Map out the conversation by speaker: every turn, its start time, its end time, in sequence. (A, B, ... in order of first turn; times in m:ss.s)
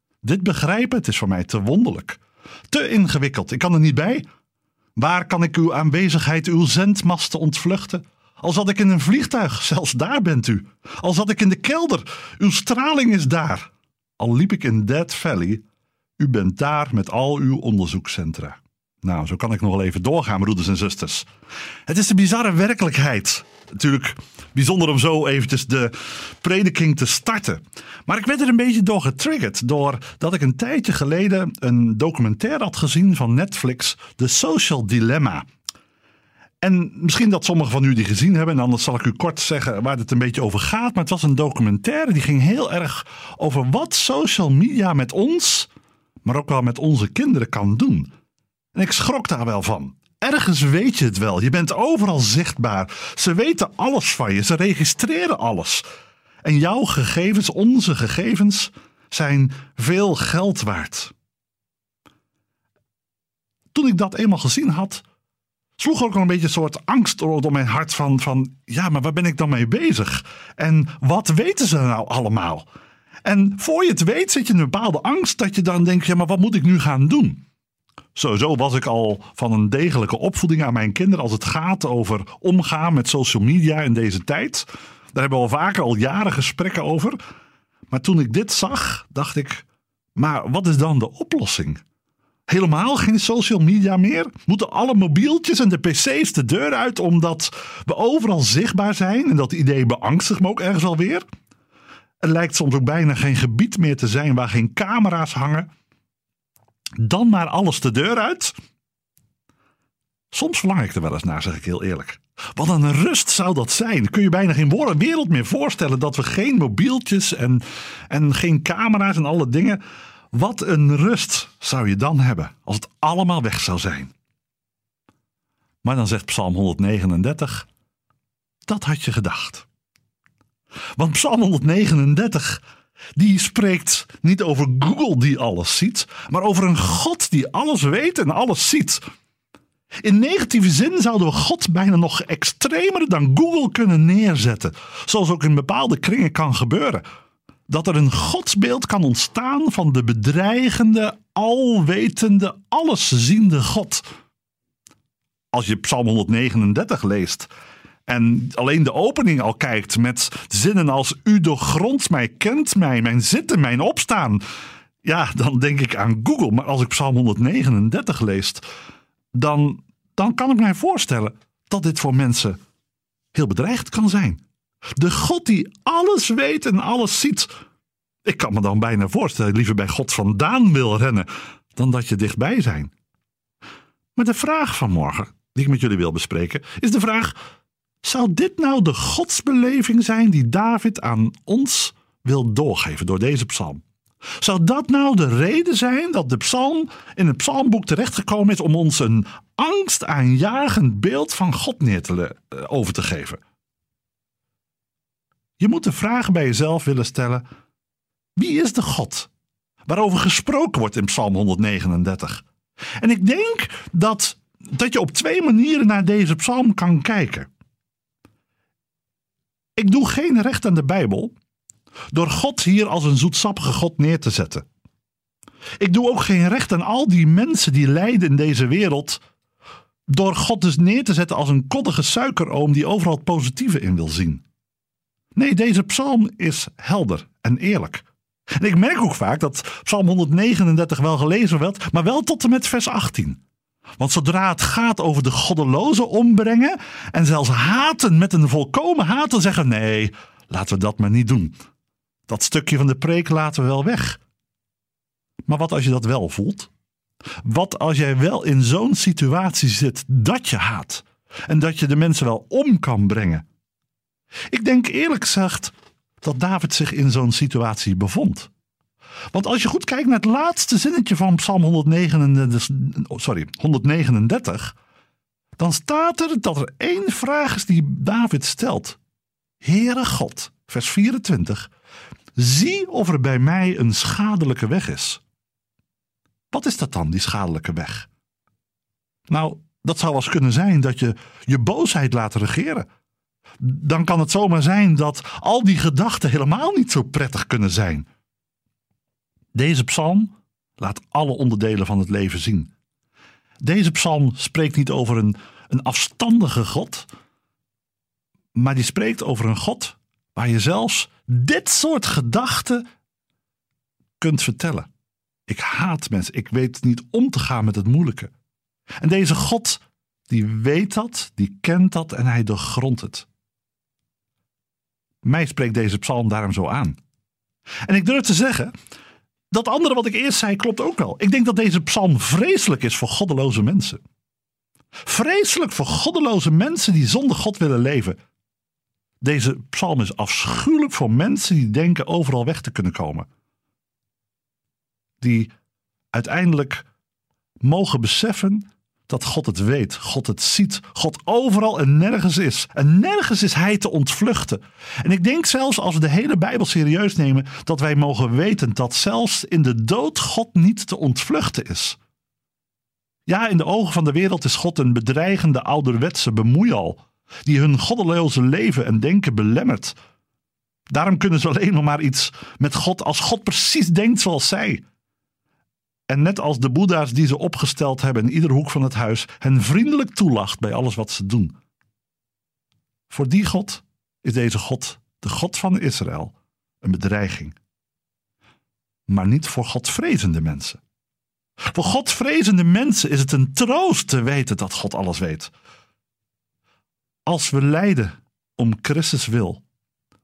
0:00.2-0:04.2 A
0:05.0-0:15.6 A
0:16.2-0:21.3 A
0:21.8-0:35.5 A
0:36.6-0:45.7 A
0:46.2-0:48.1 A
0:48.7-0:55.8 A
0:56.4-1:01.1 A
1:03.7-1:05.0 A
1:05.8-1:12.7 A
1:13.2-1:17.4 A
1:18.1-1:27.2 A
1:27.9-1:31.8 A
1:32.5-1:41.2 A
1:42.2-1:45.7 A
1:47.0-1:48.5 A
1:50.3-1:59.8 A
2:00.3-2:04.1 A
2:05.8-2:07.7 A
2:08.6-2:09.7 A
2:11.0-2:12.6 A
2:13.2-2:19.0 A
2:20.0-2:27.0 A
2:27.7-2:34.0 A
2:35.5-2:37.5 A
2:38.1-2:44.4 A
2:45.0-2:48.6 A
2:49.3-2:52.6 A
2:53.3-2:54.4 A
2:55.0-2:57.5 A
2:58.2-3:02.9 A
3:04.1-3:07.4 A
3:08.0-3:13.8 A
3:14.4-3:23.4 A
3:25.6-3:27.4 A
3:28.4-3:29.3 A
3:29.8-3:32.4 A
3:33.0-3:37.5 A
3:39.8-3:41.3 A
3:42.1-3:44.7 A
3:45.8-3:49.2 A
3:50.1-3:54.4 A
3:55.3-3:58.1 A
3:58.6-4:03.4 A
4:04.0-4:11.6 A
4:12.3-4:14.2 A
4:15.4-4:16.7 A
4:17.4-4:23.4 A
4:24.5-4:28.5 A
4:29.3-4:34.8 A
4:35.6-4:39.0 A
4:39.6-4:41.7 A
4:42.4-4:45.2 A
4:46.5-4:48.1 A
4:49.3-4:52.9 A
4:53.6-4:58.1 A
4:59.5-5:02.7 A
5:03.6-5:07.1 A
5:08.5-5:12.8 A
5:14.2-5:14.9 A
5:15.5-5:18.3 A
5:19.0-5:23.3 A
5:25.2-5:27.0 A
5:27.8-5:28.7 A
5:29.5-5:34.0 A
5:35.0-5:38.2 A
5:39.2-5:43.3 A
5:45.2-5:45.5 A
5:46.1-5:46.8 A
5:47.6-6:02.0 A
6:03.2-6:10.0 A
6:10.9-6:14.8 A
6:16.1-6:21.6 A
6:23.1-6:27.6 A
6:29.1-6:30.8 A
6:31.7-6:35.5 A
6:37.2-6:39.6 A